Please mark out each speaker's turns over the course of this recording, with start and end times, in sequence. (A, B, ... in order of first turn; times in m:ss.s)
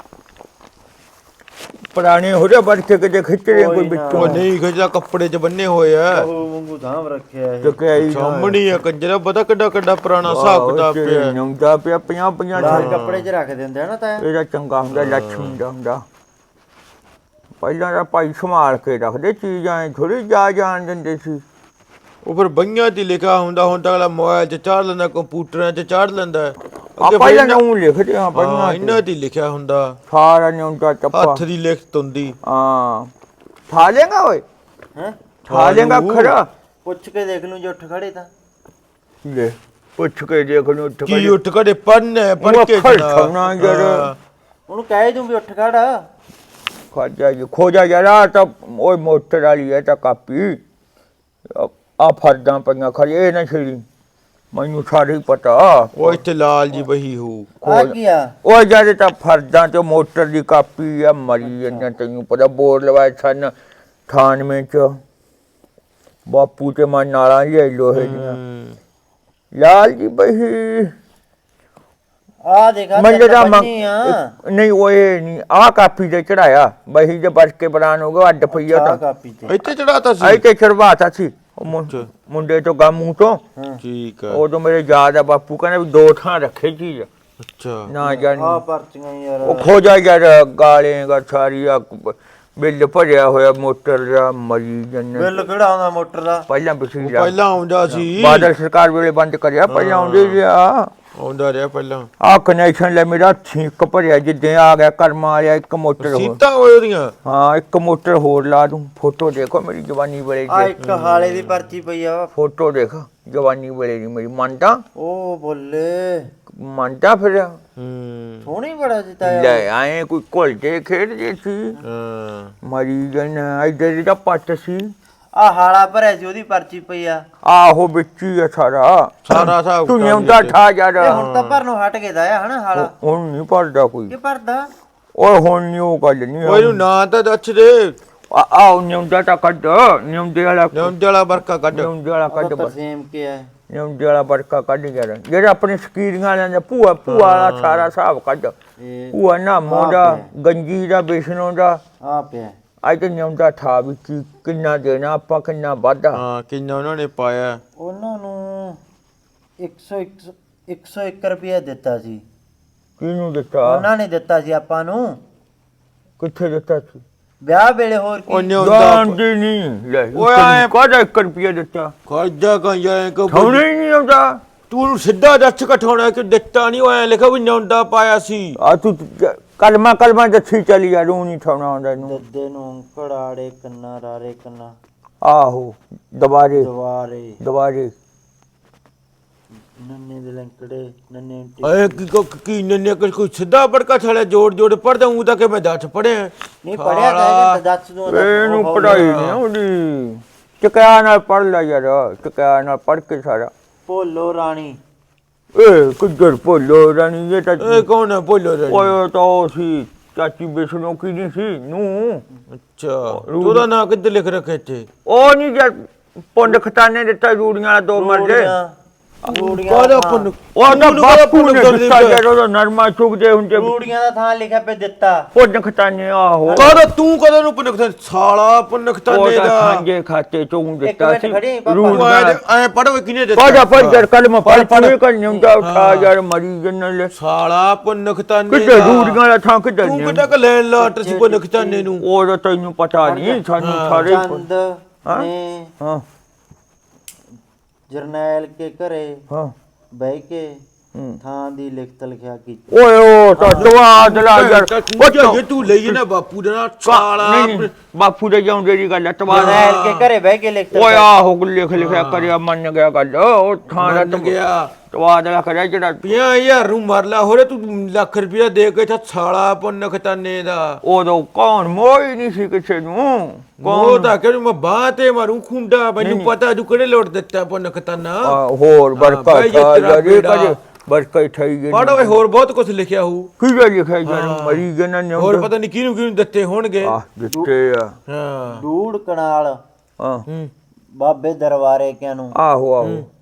0:01.9-0:04.4 A
0:03.5-0:04.4 B
0:04.1-0:06.3 C
0:06.1-0:07.8 B
0:07.6-0:08.6 A
0:08.0-0:11.4 C
0:10.2-0:13.0 A
0:12.5-0:14.2 B
0:12.6-0:13.2 C
0:14.2-0:16.0 A
0:14.9-0:15.6 C
0:17.6-0:21.4 A
0:22.2-0:27.6 C
0:27.0-0:29.0 A
0:28.3-0:30.0 C
0:30.1-0:31.4 A
0:31.1-0:32.4 C
0:32.4-0:33.1 A
0:33.7-0:34.4 A
0:35.5-0:36.4 C
0:35.5-0:36.5 A
0:36.8-0:38.3 B
0:39.2-0:41.4 A
0:41.0-0:44.2 C
0:42.4-0:44.1 A
0:44.7-0:46.0 B
0:46.9-0:50.6 A
0:51.5-0:53.8 A
0:54.5-0:56.2 A
0:56.0-0:57.6 C
0:57.6-0:58.3 B
0:57.6-1:03.5 A
1:01.4-1:01.8 B
1:04.1-1:05.0 A
1:06.3-1:08.4 A
1:07.9-1:08.8 C
1:09.5-1:10.9 A
1:12.4-1:14.3 B
1:13.0-1:19.0 A
1:18.5-1:19.5 B
1:19.5-1:20.4 C
1:20.2-1:23.4 A
1:23.8-1:24.4 C
1:24.3-1:27.1 A
1:27.5-1:27.9 C
1:27.9-1:28.6 A
1:28.0-1:29.8 B
1:29.4-1:35.3 A
1:35.1-1:36.5 B
1:36.5-1:37.3 A
1:37.0-1:38.5 C
1:37.9-1:40.9 A
1:39.7-1:40.4 C
1:41.1-1:42.1 C
1:42.2-1:46.4 A
1:46.0-1:47.1 C
1:47.2-1:50.7 A
1:50.5-1:52.3 B
1:50.8-1:51.6 C
1:52.3-1:54.8 A
1:55.0-1:56.3 B
1:56.5-1:57.6 A
1:57.8-1:58.5 C
1:58.4-1:59.6 B
1:59.2-2:01.7 A
2:01.8-2:02.5 C
2:02.6-2:04.9 A
2:05.3-2:07.2 B
2:07.4-2:11.2 A
2:09.2-2:10.6 C
2:11.0-2:12.9 B
2:11.1-2:11.6 C
2:12.7-2:14.1 A
2:14.1-2:14.7 B
2:15.2-2:16.8 A
2:16.4-2:18.0 C
2:18.3-2:20.9 A
2:20.7-2:21.9 C
2:21.7-2:22.7 A
2:22.3-2:23.5 B
2:23.7-2:28.5 A
2:27.0-2:27.9 C
2:28.8-2:30.3 B
2:29.1-2:31.8 A
2:32.0-2:32.5 B
2:32.8-2:36.2 A
2:36.1-2:37.6 C
2:37.8-2:38.8 B
2:39.6-2:42.2 B
2:43.0-2:43.9 A
2:43.6-2:45.2 B
2:46.2-2:47.0 A
2:47.4-2:48.6 B
2:48.3-2:49.2 C
2:48.6-2:51.9 A
2:50.1-2:50.7 C
2:52.1-2:53.6 C
2:53.3-2:54.4 A
2:54.7-2:58.6 C
2:58.6-3:02.2 A
3:02.0-3:04.7 B
3:05.2-3:06.7 A
3:06.5-3:07.4 B
3:07.4-3:07.9 A
3:09.6-3:12.0 B
3:11.6-3:17.6 C
3:16.6-3:19.2 B
3:18.1-3:23.5 A
3:18.8-3:19.4 C
3:23.8-3:24.8 B
3:25.5-3:27.9 A
3:27.6-3:29.0 C
3:28.7-3:32.2 A
3:32.7-3:34.9 C
3:33.1-3:33.7 A
3:35.0-3:35.7 A
3:36.3-3:38.5 A
3:37.9-3:38.7 B
3:39.2-3:40.3 B
3:39.3-3:42.2 C
3:40.5-3:43.8 A
3:43.5-3:45.3 B
3:45.3-3:46.7 A
3:46.4-3:46.9 B
3:46.5-3:49.8 C
3:49.1-3:52.4 A
3:50.8-3:52.1 B
3:51.9-3:55.0 C
3:53.3-3:57.1 A
3:55.6-3:56.1 C
3:57.1-3:59.2 C
3:58.5-4:00.3 A
3:59.8-4:02.0 C
4:00.8-4:01.9 B
4:02.0-4:04.4 A
4:03.0-4:03.4 B
4:03.6-4:04.1 C
4:04.0-4:05.7 B
4:07.9-4:09.2 B
4:09.9-4:10.6 B
4:10.9-4:11.2 A
4:11.2-4:12.6 B
4:12.7-4:16.0 A
4:13.3-4:13.7 B
4:13.6-4:17.7 C
4:16.8-4:19.7 A
4:19.3-4:20.1 C
4:19.3-4:21.1 B
4:20.7-4:26.1 A
4:21.7-4:22.3 C
4:23.7-4:24.7 C
4:26.0-4:30.8 C
4:30.8-4:34.1 A
4:33.6-4:38.4 C
4:36.0-4:36.3 A
4:38.2-4:42.2 A
4:38.9-4:40.6 C
4:41.7-4:43.3 C
4:43.4-4:45.5 A
4:44.0-4:47.0 C
4:46.8-4:47.9 A
4:48.1-4:48.6 C
4:48.5-4:49.6 B
4:50.0-4:50.3 A
4:51.0-4:52.4 B
4:52.3-4:53.0 A
4:52.8-4:53.1 C